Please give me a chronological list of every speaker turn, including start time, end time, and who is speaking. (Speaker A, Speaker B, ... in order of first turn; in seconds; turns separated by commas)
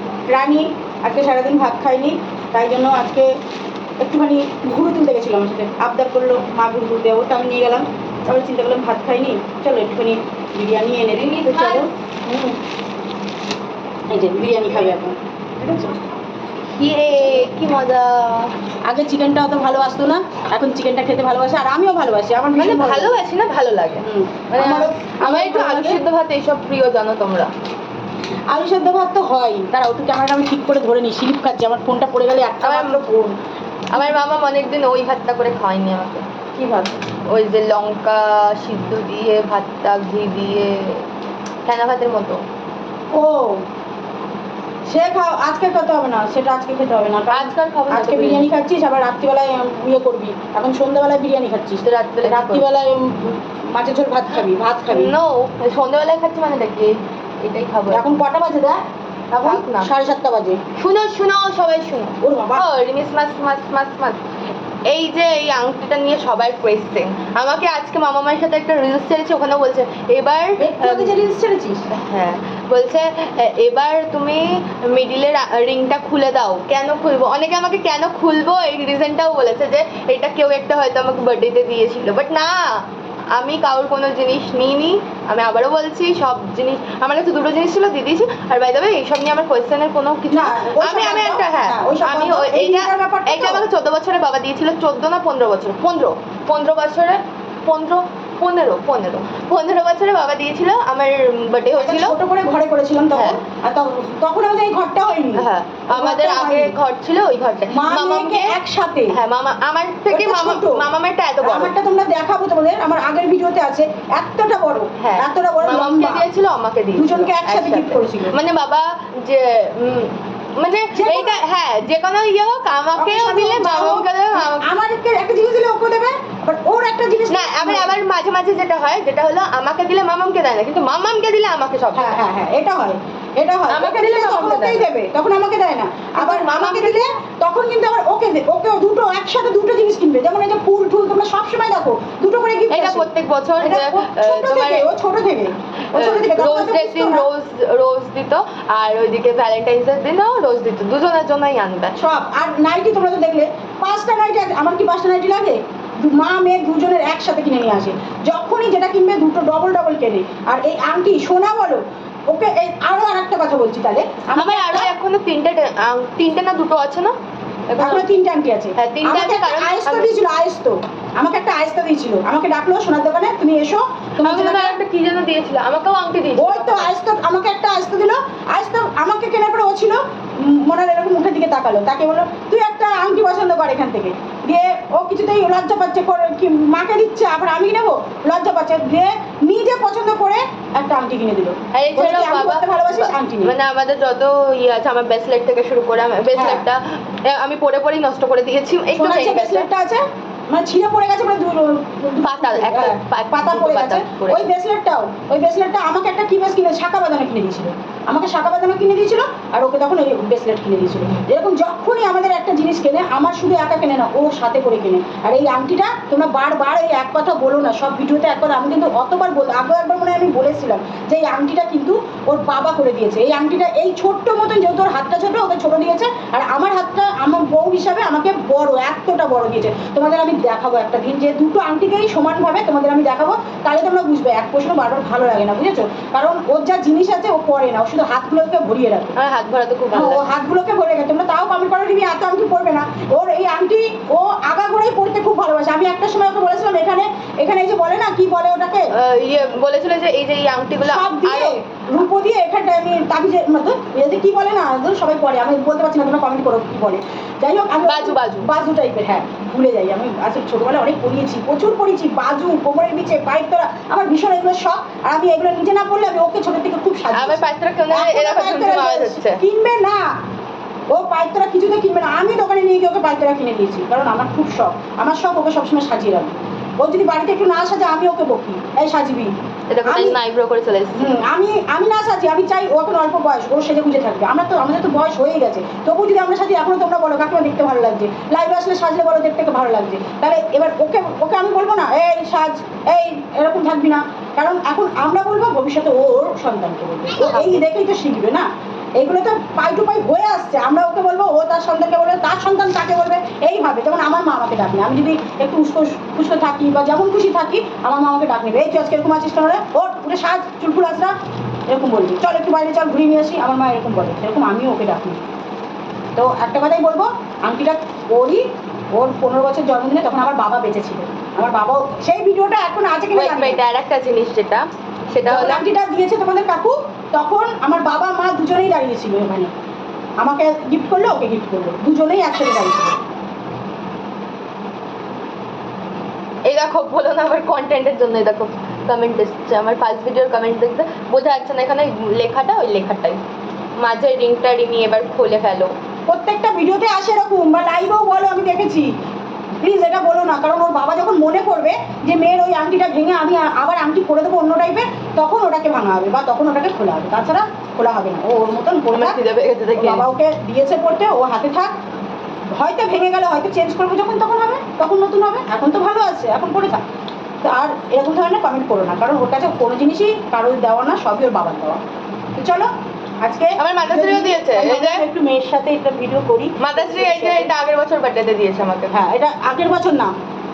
Speaker A: 0.3-3.3, Speaker A: 4.0-12.6, Speaker B: 11.1-11.9, Speaker A: 14.1-15.9, Speaker B: 16.8-18.5, Speaker A: 18.9-23.2, Speaker B: 22.6-27.5, Speaker A: 24.0-26.0, Speaker A: 28.5-33.4, Speaker B: 32.6-33.1, Speaker B: 33.9-36.3, Speaker A: 36.6-37.0, Speaker B: 37.2-41.1, Speaker B: 41.7-42.4, Speaker A: 43.1-43.6, Speaker A: 44.9-55.1, Speaker B: 47.3-48.5, Speaker B: 51.8-52.7, Speaker B: 54.9-58.0, Speaker A: 57.9-58.8, Speaker B: 59.3-59.9, Speaker A: 59.4-60.6, Speaker B: 60.8-64.2, Speaker A: 62.2-62.7, Speaker B: 64.9-71.2, Speaker A: 70.6-71.9, Speaker B: 71.9-102.2, Speaker A: 90.3-93.6, Speaker A: 101.8-106.7, Speaker B: 105.3-108.6, Speaker A: 107.7-109.2, Speaker B: 109.1-111.7, Speaker A: 110.1-110.8, Speaker A: 111.4-116.2, Speaker B: 115.0-124.7, Speaker A: 117.0-118.4, Speaker A: 120.9-121.4, Speaker A: 123.0-128.0, Speaker B: 127.3-132.2, Speaker A: 131.9-143.1, Speaker B: 133.7-134.9, Speaker B: 136.2-137.1, Speaker B: 142.7-144.9, Speaker A: 143.6-147.3, Speaker B: 145.9-152.0, Speaker A: 151.9-164.9, Speaker B: 164.3-167.2, Speaker B: 167.7-168.1, Speaker A: 167.8-174.8, Speaker B: 168.8-170.2, Speaker B: 174.2-176.9, Speaker A: 176.4-193.6, Speaker B: 191.7-199.7, Speaker A: 196.3-196.6, Speaker A: 198.9-239.2, Speaker B: 202.2-204.5, Speaker B: 239.2-240.2, Speaker A: 239.9-248.9, Speaker B: 248.9-251.6, Speaker A: 250.8-270.1, Speaker B: 257.8-258.5, Speaker B: 267.1-269.4, Speaker A: 270.9-279.3, Speaker B: 279.7-281.2, Speaker A: 279.9-280.2, Speaker A: 281.0-298.5, Speaker B: 297.2-297.6, Speaker A: 299.0-311.1, Speaker A: 311.7-315.2, Speaker A: 316.2-318.4, Speaker A: 318.9-323.6, Speaker B: 323.1-325.6, Speaker A: 325.2-329.5, Speaker A: 330.2-333.0, Speaker B: 336.5-343.2, Speaker B: 343.8-345.8, Speaker A: 346.1-348.9, Speaker A: 349.6-359.2, Speaker B: 358.9-360.1, Speaker A: 359.8-361.7, Speaker A: 362.5-366.8, Speaker A: 367.4-371.8, Speaker A: 372.4-372.7, Speaker A: 373.2-377.5, Speaker B: 373.6-375.0, Speaker B: 376.6-379.0, Speaker A: 378.9-380.1